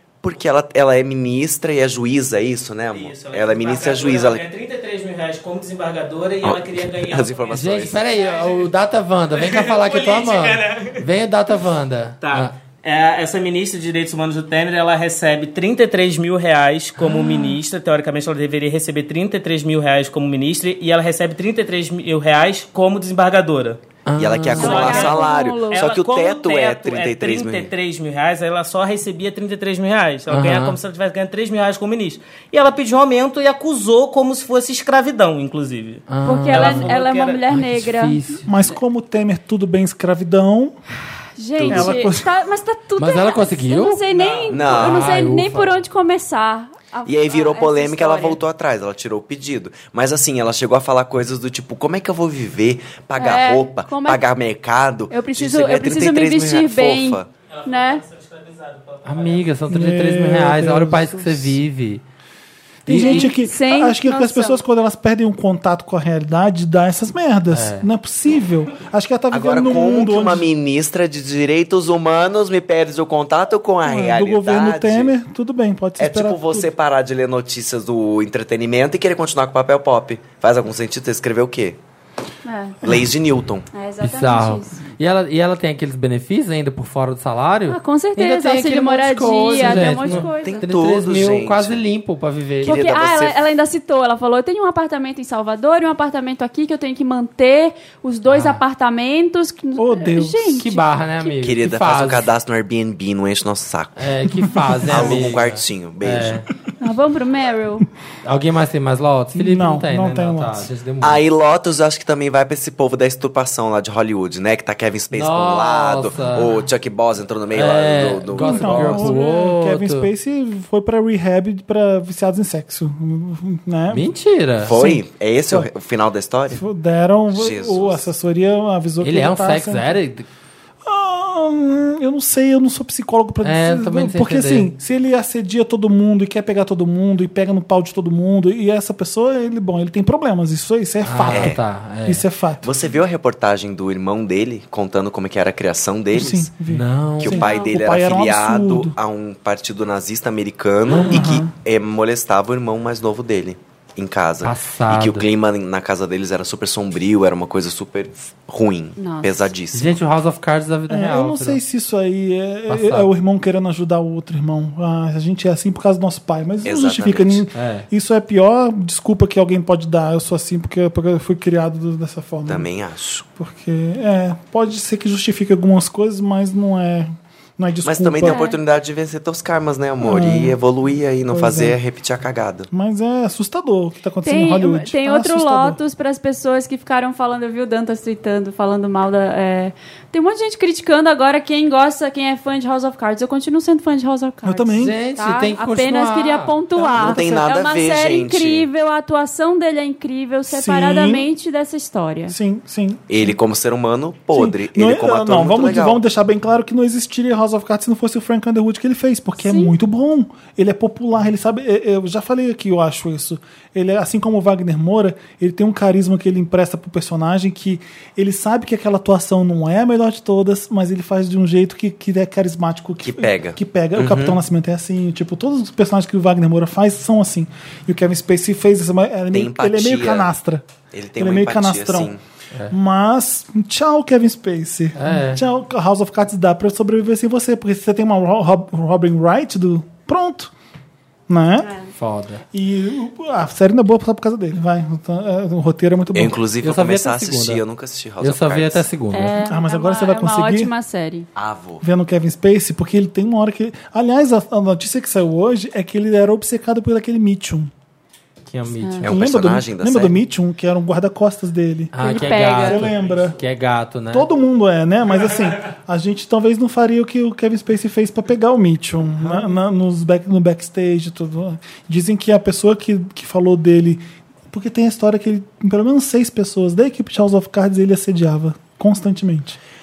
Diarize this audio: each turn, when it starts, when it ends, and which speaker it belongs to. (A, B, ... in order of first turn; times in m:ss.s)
0:00.2-0:04.4 A
0:02.9-0:08.7 B
0:06.4-0:08.0 A
0:07.5-0:12.6 C
0:09.3-0:11.0 B
0:12.2-0:23.8 B
0:17.0-0:17.5 C
0:24.1-0:25.0 C
0:24.2-0:27.7 A
0:24.6-0:25.9 D
0:24.6-0:37.4 B
0:30.3-0:30.8 C
0:36.1-0:36.9 C
0:36.2-0:38.2 D
0:37.5-0:38.5 C
0:38.5-0:40.8 E
0:41.4-0:48.4 D
0:41.6-0:42.0 A
0:41.7-0:42.3 E
0:43.0-0:44.0 C
0:44.1-0:44.8 B
0:44.5-0:45.1 A
0:44.7-0:45.8 C
0:47.1-0:57.3 A
0:53.2-0:54.2 D
0:55.1-0:58.0 D
0:57.5-0:59.5 B
0:59.0-1:02.0 C
0:59.7-1:01.6 E
1:02.9-1:10.5 E
1:02.9-1:03.3 C
1:02.9-1:04.6 D
1:07.5-1:07.9 C
1:09.3-1:15.1 A
1:13.8-1:16.7 E
1:16.0-1:21.8 A
1:22.4-1:22.8 D
1:22.8-1:23.7 A
1:23.7-1:24.8 D
1:24.0-1:32.8 C
1:27.7-1:30.6 D
1:29.7-1:31.8 A
1:32.6-1:33.4 A
1:32.6-1:41.3 D
1:38.3-1:38.6 C
1:39.8-1:40.6 E
1:40.6-1:42.3 C
1:41.4-1:44.1 A
1:44.0-1:46.5 C
1:44.6-1:45.3 E
1:44.8-1:46.4 A
1:46.8-1:47.9 D
1:48.2-1:51.2 C
1:49.4-1:50.7 E
1:51.0-1:59.2 A
1:55.1-1:56.6 C
1:57.6-2:00.1 C
1:58.4-2:04.1 E
2:03.9-2:04.7 C
2:04.7-2:06.6 A
2:04.7-2:05.7 E
2:06.5-2:09.9 E
2:07.3-2:08.1 A
2:09.0-2:10.3 C
2:10.8-2:22.7 E
2:13.4-2:14.7 C
2:21.0-2:22.2 C
2:21.3-2:21.6 A
2:22.6-2:26.5 A
2:26.1-2:29.0 E
2:26.7-2:27.4 C
2:27.2-2:40.0 A
2:27.4-2:27.8 D
2:31.1-2:31.5 E
2:34.4-2:35.2 C
2:39.0-2:39.5 D
2:39.7-2:41.6 C
2:40.9-2:52.7 E
2:42.7-2:43.1 C
2:46.6-2:47.4 A
2:47.5-2:47.9 C
2:52.5-2:53.3 A
2:53.4-2:58.4 E
2:57.8-3:02.7 A
2:58.2-2:58.6 D
3:00.0-3:00.6 E
3:01.3-3:01.8 E
3:02.7-3:05.8 E
3:04.2-3:22.4 D
3:14.4-3:15.0 E
3:14.8-3:16.6 C
3:16.8-3:17.4 E
3:17.0-3:18.7 A
3:20.5-3:21.3 E
3:22.3-3:23.4 E
3:23.1-3:26.0 A
3:24.3-3:50.6 E
3:29.4-3:29.7 D
3:43.0-3:44.4 A
3:49.3-3:50.3 A
3:50.9-3:52.2 A
3:51.2-3:52.1 E
3:52.7-4:00.5 E
3:55.0-3:55.4 C
4:01.3-4:01.7 E
4:01.6-4:01.9 D
4:02.0-4:02.4 C
4:02.5-4:06.4 E
4:06.1-4:08.8 A
4:06.6-4:07.6 C
4:08.2-4:09.4 C
4:09.1-4:11.3 D
4:09.4-4:10.7 E
4:11.4-4:11.8 A
4:11.8-4:17.7 E
4:18.5-4:19.1 C
4:19.0-4:20.2 A
4:19.1-4:23.4 E
4:21.9-4:24.3 C
4:22.0-4:22.9 D
4:24.1-4:39.6 E